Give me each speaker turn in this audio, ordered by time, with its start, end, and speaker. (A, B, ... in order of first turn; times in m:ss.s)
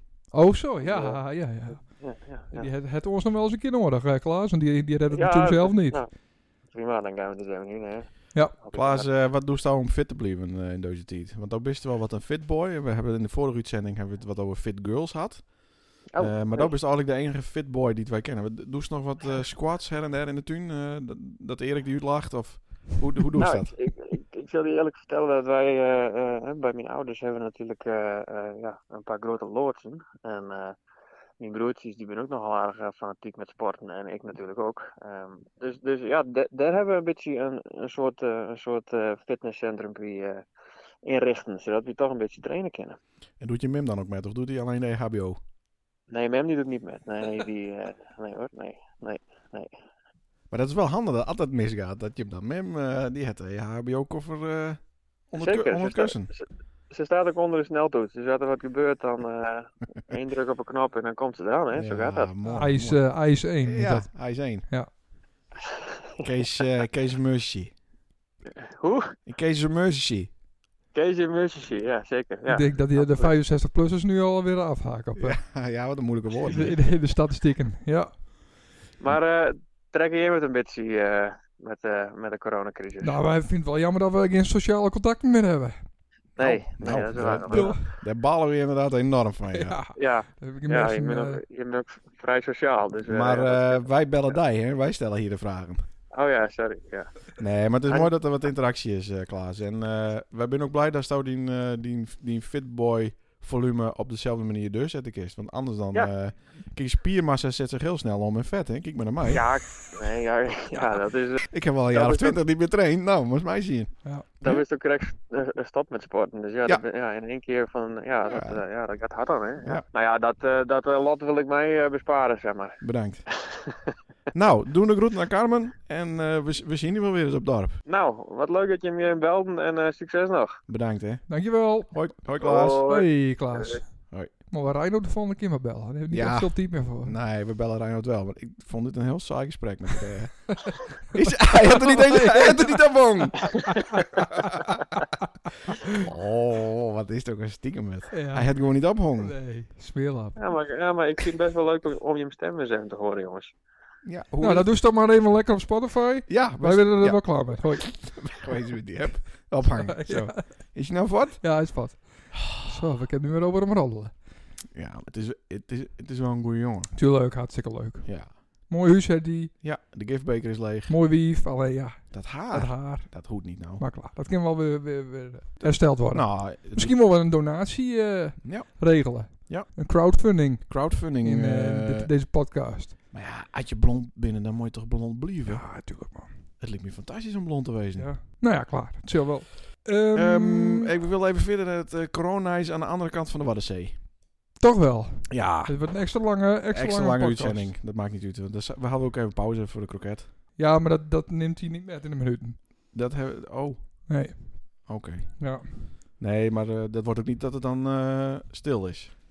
0:00.3-0:06.0 A
0:00.8-0:02.7 B
0:05.1-0:09.1 B
0:08.3-0:08.6 A
0:08.7-0:23.7 C
0:16.1-0:16.7 B
0:23.4-0:30.8 B
0:31.4-0:40.4 B
0:41.0-0:43.0 B
0:43.4-0:45.4 C
0:46.1-0:49.7 B
0:50.5-0:56.3 C
0:55.3-1:02.4 B
1:01.7-1:04.7 C
1:02.4-1:04.9 A
1:06.2-1:07.8 C
1:08.7-1:09.1 B
1:09.2-1:10.3 C
1:10.9-1:13.4 B
1:12.5-1:15.4 A
1:15.2-1:16.8 C
1:16.4-1:18.2 A
1:19.0-1:23.2 B
1:23.0-1:25.9 A
1:26.4-1:27.8 B
1:26.4-1:29.8 C
1:27.5-1:27.9 A
1:29.5-1:31.4 A
1:30.0-1:34.3 B
1:33.0-1:35.8 C
1:36.1-1:37.1 B
1:37.4-1:49.4 C
1:37.8-1:38.1 B
1:49.3-1:52.4 B
1:51.5-1:54.6 C
1:54.0-1:54.3 A
1:54.4-2:02.8 B
1:58.2-1:58.6 C
2:02.8-2:03.2 C
2:04.3-2:07.8 C
2:07.8-2:10.6 B
2:10.7-2:12.8 C
2:11.3-2:12.2 A
2:12.4-2:13.8 B
2:12.9-2:17.2 A
2:16.1-2:23.7 C
2:21.4-2:23.0 A
2:24.3-2:24.7 C
2:25.9-2:29.4 C
2:28.1-2:28.6 A
2:29.2-2:30.4 A
2:30.4-2:33.5 B
2:34.0-2:34.7 C
2:34.4-2:38.3 A
2:36.3-2:42.8 C
2:39.8-2:40.8 A
2:41.4-2:44.2 A
2:44.7-2:46.9 C
2:46.9-2:49.5 A
2:48.0-2:48.3 C
2:49.6-2:50.9 C
2:50.9-3:02.9 A
2:52.1-2:53.9 C
2:55.6-2:57.0 C
2:58.4-3:02.1 C
3:03.1-3:05.9 C
3:05.5-3:06.3 A
3:06.6-3:08.1 C
3:08.0-3:10.9 A
3:10.1-3:14.0 C
3:14.6-3:17.7 A
3:15.3-3:16.1 C
3:16.7-3:20.3 C
3:20.6-3:22.6 A
3:22.9-3:24.1 C
3:24.1-3:25.9 A
3:24.8-3:29.2 C